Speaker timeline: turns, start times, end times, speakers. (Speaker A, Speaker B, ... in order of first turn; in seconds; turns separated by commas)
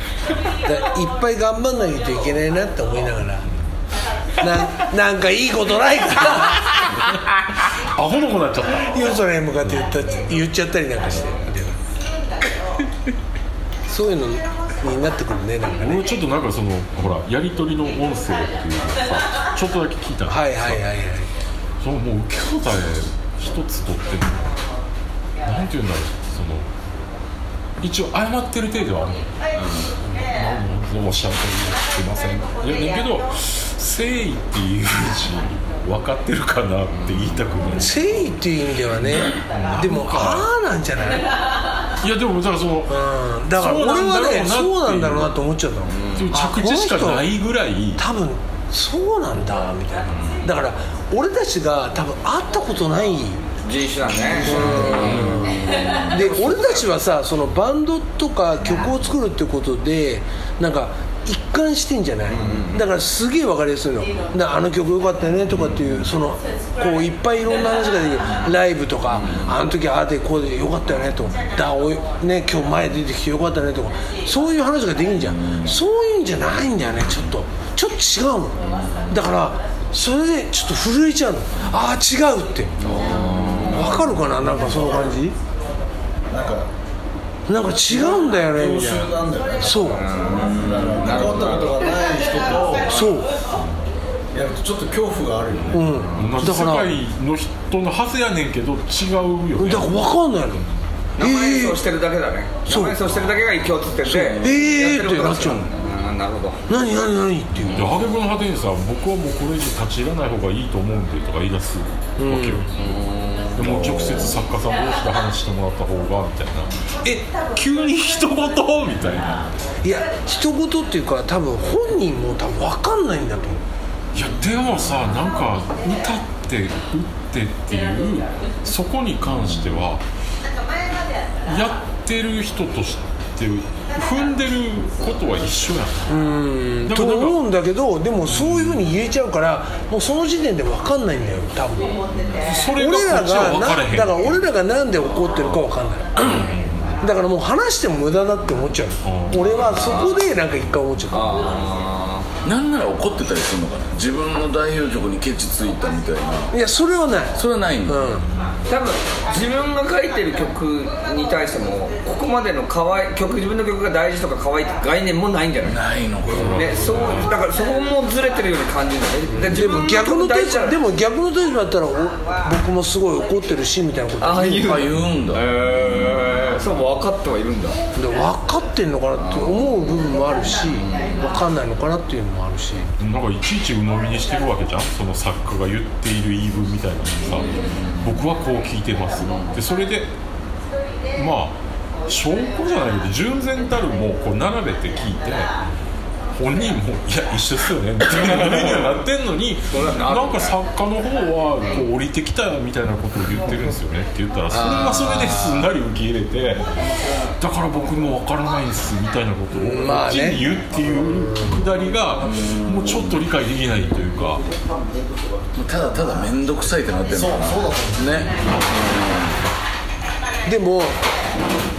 Speaker A: 0.6-3.5, Speaker A: 4.4-6.8, Speaker B: 7.8-9.9, Speaker A: 8.9-11.8, Speaker A: 13.9-16.1, Speaker B: 15.8-20.9, Speaker A: 20.3-21.3, Speaker B: 21.8-24.5, Speaker B: 25.4-26.7, Speaker B: 27.8-29.3, Speaker B: 29.9-38.0, Speaker A: 37.8-41.3, Speaker B: 39.1-40.5, Speaker B: 42.0-43.0, Speaker A: 42.9-47.3, Speaker B: 43.5-45.4, Speaker C: 45.9-46.3, Speaker B: 46.1-48.0, Speaker A: 48.0-53.4, Speaker C: 53.6-55.2, Speaker D: 54.3-56.1, Speaker A: 54.3-82.8, Speaker B: 54.9-55.5, Speaker C: 56.1-56.8, Speaker C: 62.3-62.9, Speaker D: 75.2-75.8, Speaker D: 78.6-79.2, Speaker D: 82.8-84.4, Speaker C: 82.9-84.0, Speaker A: 83.7-85.4, Speaker E: 86.3-86.7, Speaker A: 87.5-90.0, Speaker E: 88.5-92.9, Speaker C: 89.8-92.0, Speaker D: 89.8-91.7, Speaker D: 92.7-93.0, Speaker A: 92.9-93.3, Speaker E: 94.3-95.8, Speaker A: 95.7-97.0, Speaker C: 95.9-96.3, Speaker B: 96.2-100.1, Speaker A: 99.6-100.6, Speaker C: 101.2-106.6, Speaker A: 101.2-101.8, Speaker A: 102.7-103.0, Speaker A: 104.0-105.7, Speaker A: 106.7-107.9, Speaker B: 107.7-112.7, Speaker A: 112.2-112.7, Speaker C: 112.8-113.6, Speaker B: 113.5-119.5, Speaker D: 113.6-113.9, Speaker A: 119.8-123.6, Speaker B: 124.1-130.0, Speaker B: 131.4-136.1, Speaker A: 136.1-142.1, Speaker B: 136.8-137.4, Speaker B: 138.3-138.9, Speaker B: 142.2-144.5, Speaker A: 142.7-146.5, Speaker B: 146.2-147.0, Speaker A: 147.0-151.6, Speaker B: 149.0-149.8, Speaker C: 149.5-150.2, Speaker C: 151.1-152.3, Speaker D: 152.4-156.5, Speaker A: 156.5-158.2, Speaker D: 157.4-158.1, Speaker C: 158.7-170.8, Speaker D: 165.7-166.4, Speaker B: 166.2-167.4, Speaker A: 166.4-166.8, Speaker A: 169.3-174.8, Speaker C: 174.2-177.8, Speaker D: 174.7-175.4, Speaker A: 178.0-182.9, Speaker C: 179.2-179.8, Speaker C: 180.6-181.2, Speaker B: 183.0-190.1, Speaker B: 191.1-195.5, Speaker B: 196.4-206.6, Speaker C: 198.2-198.6, Speaker C: 199.7-200.6, Speaker A: 204.5-205.7, Speaker B: 207.4-214.4, Speaker A: 209.5-210.4, Speaker A: 211.1-211.7, Speaker D: 212.3-213.2, Speaker D: 215.6-219.4, Speaker E: 217.1-218.4, Speaker A: 220.5-221.0